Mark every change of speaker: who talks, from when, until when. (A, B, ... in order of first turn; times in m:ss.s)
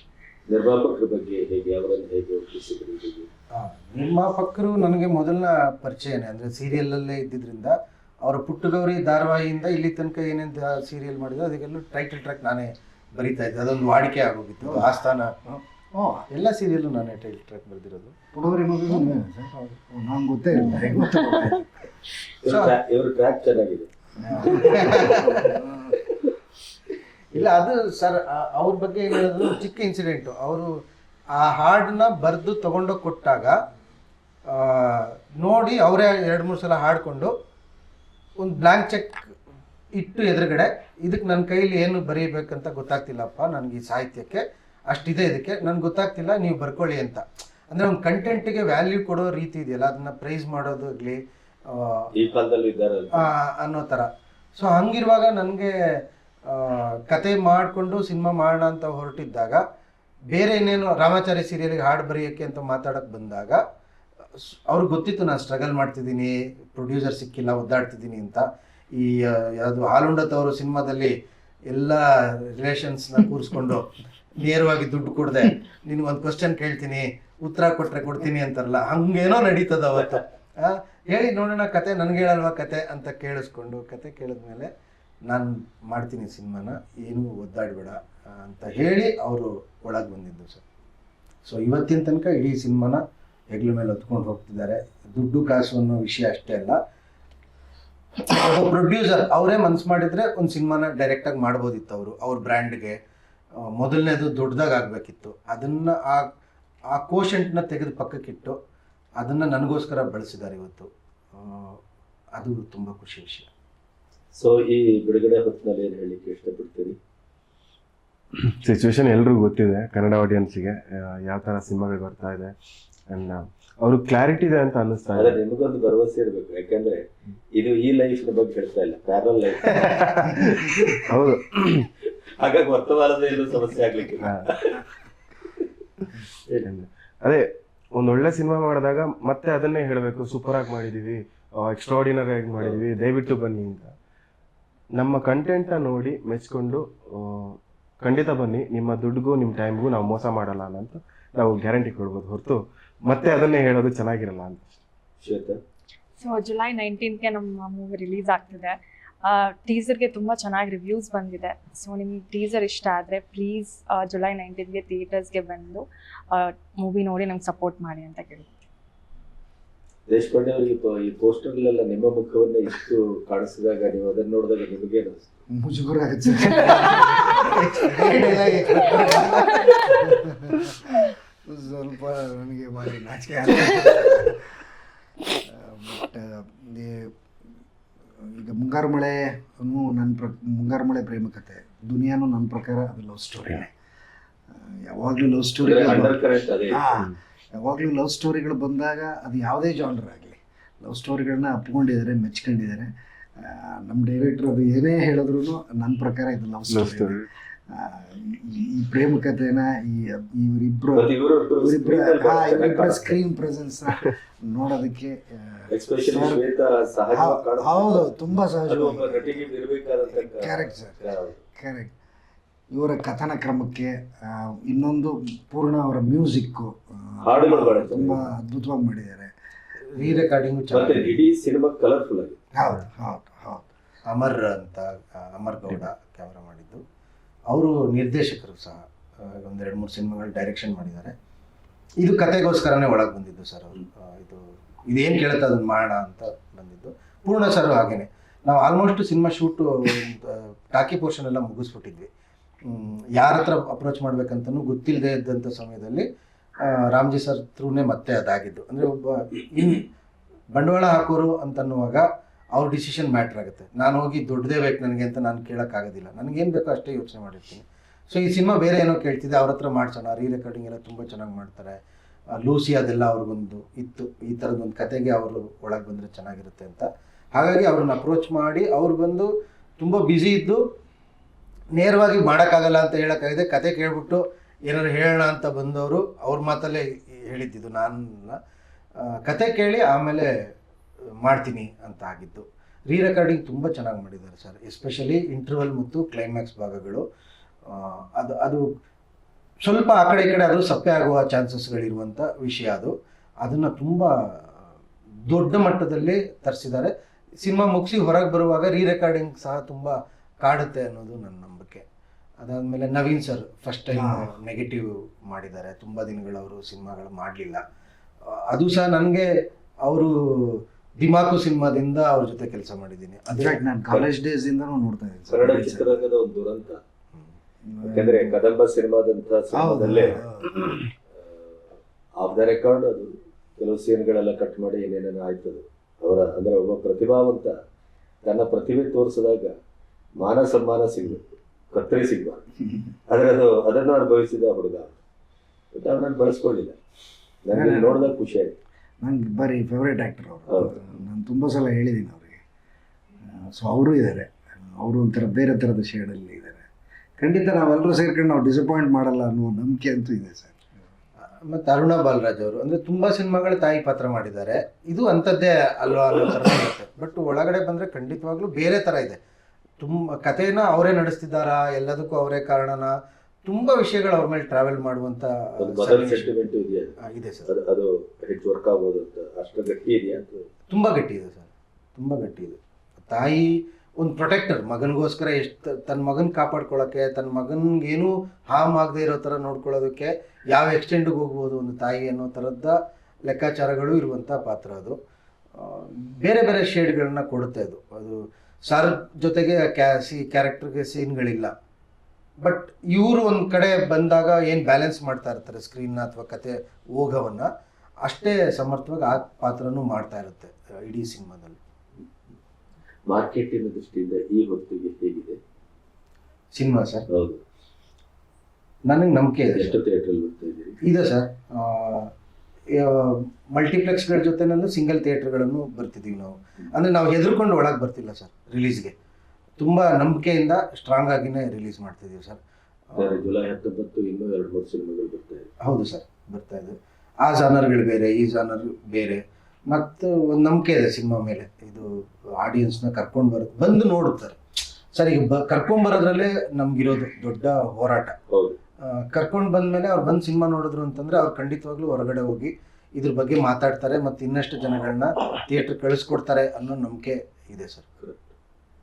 0:00.5-0:03.3 A
0:03.6-0:15.4 B
0:14.6-0:14.9 C
0:15.9-0:16.3 C
0:16.3-0:18.1 B
0:18.3-0:21.7 C
0:20.6-0:21.6 D
0:22.4-0:23.9 A
0:22.5-0:22.8 B
0:24.2-0:26.0 C
0:24.3-0:25.6 B
0:24.5-0:24.9 A
0:27.3-0:30.7 B
0:31.4-0:33.6 B
0:34.5-0:37.3 B
0:38.4-0:39.3 B
0:40.0-0:52.1 B
0:52.1-0:53.3 A
0:53.2-0:55.7 B
0:56.5-0:59.6 B
1:00.3-1:03.6 B
1:04.5-1:11.2 B
1:11.7-1:24.7 B
1:25.3-1:30.6 B
1:31.4-1:33.0 B
1:33.5-1:36.8 B
1:38.2-1:43.0 B
1:43.8-1:46.3 B
1:46.9-1:48.6 B
1:49.2-1:51.8 B
1:52.4-1:53.5 B
1:54.4-1:57.0 A
1:58.4-2:02.5 E
2:03.1-2:05.4 E
2:05.2-2:07.0 A
2:07.6-2:11.0 A
2:09.6-2:11.9 E
2:12.4-2:14.8 A
2:14.2-2:14.5 E
2:16.6-2:23.9 E
2:25.0-2:34.7 E
2:35.2-2:35.6 A
2:36.2-2:48.5 D
2:50.1-2:55.2 A
2:55.5-3:04.6 C
2:56.8-3:00.1 B
3:05.4-3:07.1 C
3:08.2-3:13.7 C
3:14.5-3:16.2 C
3:15.6-3:16.9 A
3:16.7-3:36.4 C
3:26.7-3:27.3 E
3:31.0-3:33.2 A
3:35.7-3:38.1 A
3:37.1-3:39.5 C
3:38.7-3:41.4 A
3:40.1-3:41.0 C
3:41.6-3:41.9 C
3:42.7-3:49.3 C
3:47.2-3:48.3 A
3:49.9-3:51.2 B
3:50.0-3:50.2 C
3:50.7-3:52.4 A
3:52.6-3:53.7 C
3:54.1-3:56.8 B
3:57.5-4:01.1 B
4:02.0-4:12.1 B
4:12.7-4:16.1 B
4:16.6-4:19.9 B
4:20.5-4:31.8 B
4:32.3-4:40.6 B
4:41.8-4:48.4 B
4:49.0-4:50.3 B
4:51.2-4:57.0 B
4:57.7-4:58.7 B
4:59.6-5:02.9 B
5:03.4-5:04.1 B
5:05.3-5:11.8 B
5:12.4-5:17.6 B
5:14.0-5:14.3 C
5:18.3-5:19.3 B
5:19.8-5:23.6 B
5:23.3-5:26.0 C
5:25.3-5:26.8 A
5:27.6-5:28.4 C
5:27.8-5:30.2 A
5:29.5-5:30.8 C
5:31.1-5:31.7 A
5:32.2-5:37.6 A
5:38.2-5:39.6 A
5:40.2-5:42.4 A
5:43.1-5:45.0 A
5:45.7-5:46.8 A
5:47.4-5:48.6 A
5:47.5-5:48.1 C
5:49.0-5:52.4 C
5:50.5-5:50.8 A
5:53.2-5:56.6 C
5:57.2-6:00.7 C
6:01.4-6:09.2 B
6:09.8-6:12.9 B
6:13.4-6:16.3 B
6:15.6-6:16.9 A
6:17.0-6:17.5 B
6:17.5-6:20.5 A
6:20.7-6:35.0 B
6:35.6-6:41.5 B
6:42.4-6:47.5 B
6:48.0-6:51.6 B
6:53.1-6:55.4 A
6:56.6-6:57.1 B
6:57.1-6:57.4 A
6:58.9-6:59.8 B
6:59.6-7:00.8 A
7:00.8-7:02.1 B
7:02.7-7:08.9 B
7:09.6-7:12.4 B
7:12.9-7:13.3 B
7:13.0-7:15.5 A
7:15.6-7:24.4 B
7:25.0-7:28.2 B
7:28.3-7:28.6 A
7:28.9-7:37.9 B